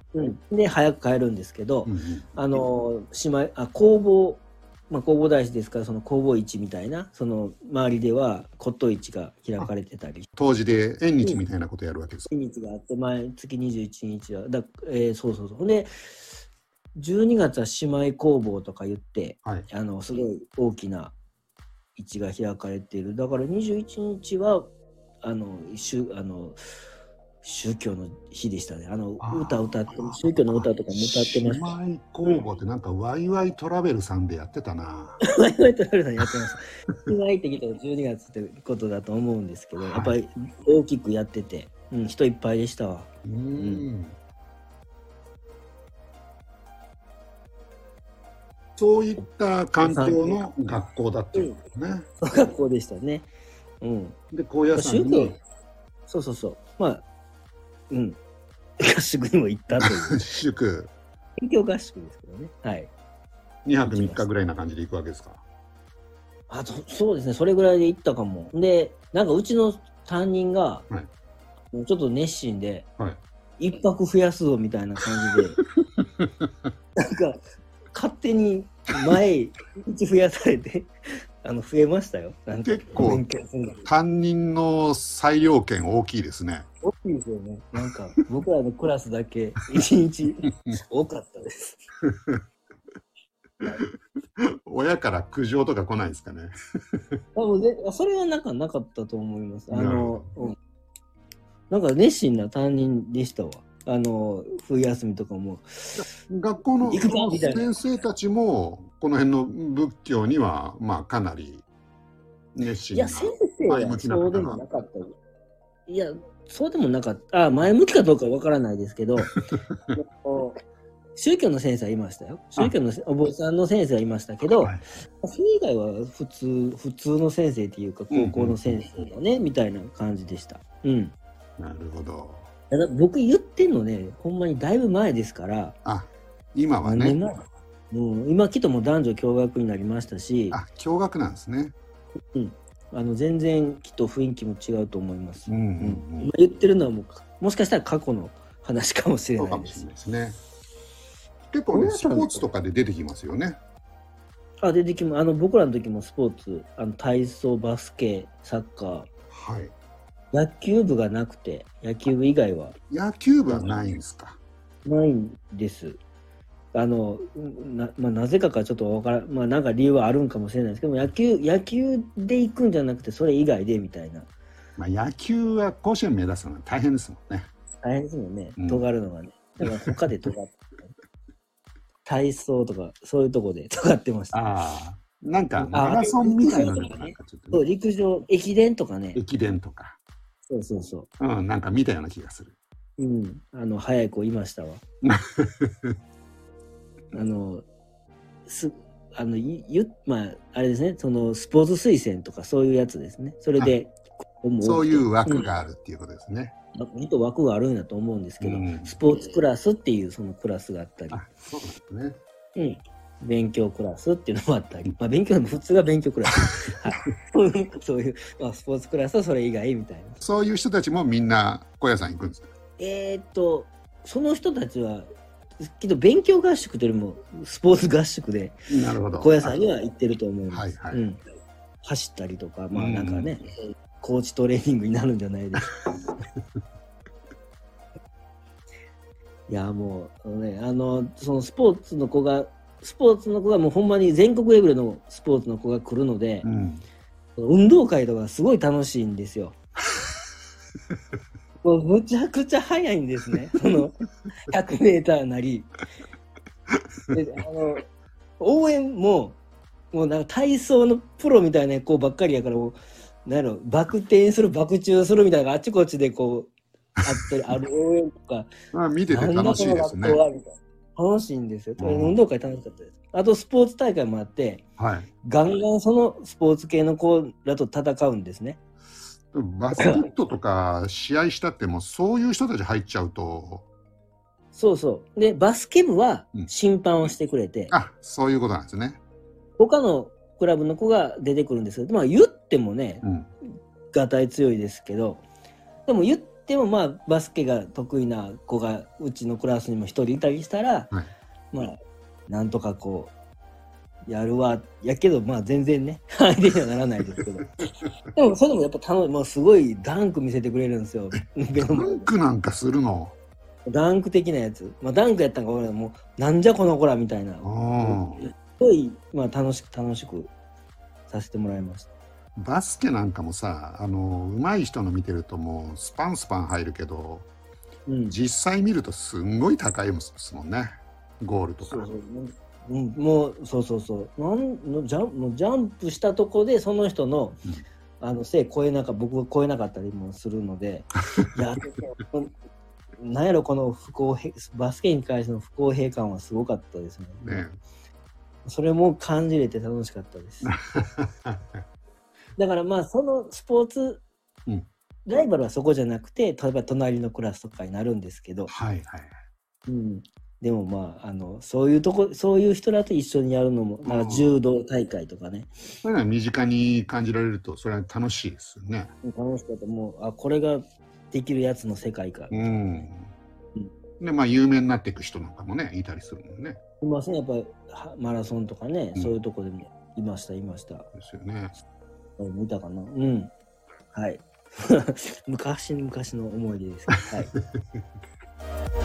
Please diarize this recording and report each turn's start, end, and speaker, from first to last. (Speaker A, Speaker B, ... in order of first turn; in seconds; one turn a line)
Speaker A: 0.1-10.3
Speaker B: 1.8-2.3
Speaker B: 10.4-12.3
Speaker A: 12.3-15.9
Speaker A: 16.9-21.1
Speaker A: 21.9-24.7
Speaker A: 25.2-26.6
Speaker A: 27.4-31.8
Speaker B: 29.2-30.7
Speaker B: 31.4-35.2
Speaker A: 35.2-43.9
Speaker B: 39.8-40.1
Speaker B: 43.2-44.1
Speaker B: 48.8-52.0
Speaker A: 49.8-50.5
Speaker A: 52.2-53.3
Speaker A: 53.8-54.2
Speaker B: 54.3-55.4
Speaker A: 54.7-55.4
Speaker A: 56.1-57.0
Speaker A: 57.9-58.2
Speaker A: 58.8-60.4
Speaker B: 59.8-60.9
Speaker A: 61.4-62.9
Speaker B: 63.6-65.4
Speaker A: 63.8-64.3
Speaker A: 66.5-70.9
Speaker A: 71.7-72.9
Speaker A: 73.6-75.6
Speaker B: 76.0-76.7
Speaker A: 77.0-77.4
Speaker A: 77.9-80.9
Speaker A: 81.4-83.8
Speaker B: 82.6-83.2
Speaker B: 83.8-86.7
Speaker A: 86.8-91.8
Speaker B: 92.0-92.4
Speaker B: 94.7-97.2
Speaker A: 97.3-100.5
Speaker B: 99.7-100.3
Speaker A: 101.7-106.0
Speaker B: 106.0-111.6
Speaker A: 106.8-107.7
Speaker B: 112.5-114.6
Speaker A: 112.9-115.1
Speaker A: 115.9-119.3
Speaker B: 119.2-120.0
Speaker A: 119.9-120.6
Speaker A: 121.2-131.1
Speaker B: 128.1-129.1
Speaker B: 131.6-132.4
Speaker A: 132.7-135.8
Speaker B: 135.8-137.2
Speaker A: 136.8-140.6
Speaker B: 140.5-141.7
Speaker A: 142.3-149.8
Speaker B: 145.5-146.3
Speaker B: 149.4-150.4
Speaker B: 151.5-153.6
Speaker A: 151.7-152.5
Speaker A: 154.6-159.1
Speaker B: 159.3-159.7
Speaker A: 160.3-162.7
Speaker B: 162.9-164.4
Speaker A: 164.8-166.0
Speaker A: 166.7-174.3
Speaker B: 174.8-177.5
Speaker A: 177.8-180.9
Speaker B: 178.6-178.8
Speaker A: 182.0-184.4
Speaker B: 184.3-187.6
Speaker A: 185.6-189.2
Speaker B: 189.1-189.9
Speaker A: 190.5-191.1
Speaker B: 191.2-192.5
Speaker A: 193.0-194.8
Speaker B: 195.0-195.9
Speaker A: 197.1-197.7
Speaker A: 198.4-205.5
Speaker B: 204.6-206.5
Speaker A: 206.8-211.2
Speaker B: 208.4-209.0
Speaker B: 211.1-212.2
Speaker A: 212.6-220.2
Speaker B: 220.2-222.5
Speaker A: 222.8-225.1
Speaker A: 225.6-228.6
Speaker B: 228.7-229.6
Speaker A: 229.1-231.2
Speaker B: 230.5-231.0
Speaker A: 231.8-235.7
Speaker B: 232.7-233.3
Speaker A: 239.5-246.5
Speaker B: 246.4-246.8
Speaker A: 247.4-249.6
Speaker A: 251.6-253.9
Speaker A: 254.5-255.7
Speaker A: 257.1-257.8
Speaker A: 258.4-259.4
Speaker A: 259.9-266.5
Speaker A: 267.0-268.5
Speaker B: 268.7-270.2
Speaker A: 269.1-274.6
Speaker B: 271.8-272.2
Speaker B: 274.8-275.1
Speaker A: 275.2-278.6
Speaker B: 279.3-283.6
Speaker A: 279.8-280.1
Speaker A: 284.5-287.7
Speaker B: 287.7-289.0
Speaker A: 289.6-293.0
Speaker B: 293.0-293.3
Speaker A: 293.9-295.2
Speaker A: 295.9-300.9
Speaker A: 302.3-303.1
Speaker A: 304.1-307.5
Speaker A: 308.1-312.1
Speaker B: 311.6-313.1
Speaker A: 313.7-320.3
Speaker B: 317.4-318.2
Speaker A: 321.1-321.9
Speaker B: 322.4-327.3
Speaker A: 327.9-328.1
Speaker B: 328.1-331.9
Speaker A: 331.6-337.4
Speaker A: 338.0-342.3
Speaker A: 343.0-347.5
Speaker B: 347.2-347.6
Speaker A: 348.4-350.5
Speaker B: 350.4-351.6
Speaker A: 352.4-354.0
Speaker A: 355.1-358.5
Speaker B: 358.5-359.1
Speaker A: 359.7-365.5
Speaker B: 363.8-364.4
Speaker B: 365.8-368.9
Speaker A: 369.0-372.9
Speaker B: 372.3-373.1
Speaker B: 374.0-376.6
Speaker A: 376.8-380.9
Speaker B: 380.9-381.5
Speaker A: 382.2-383.3
Speaker A: 383.9-387.3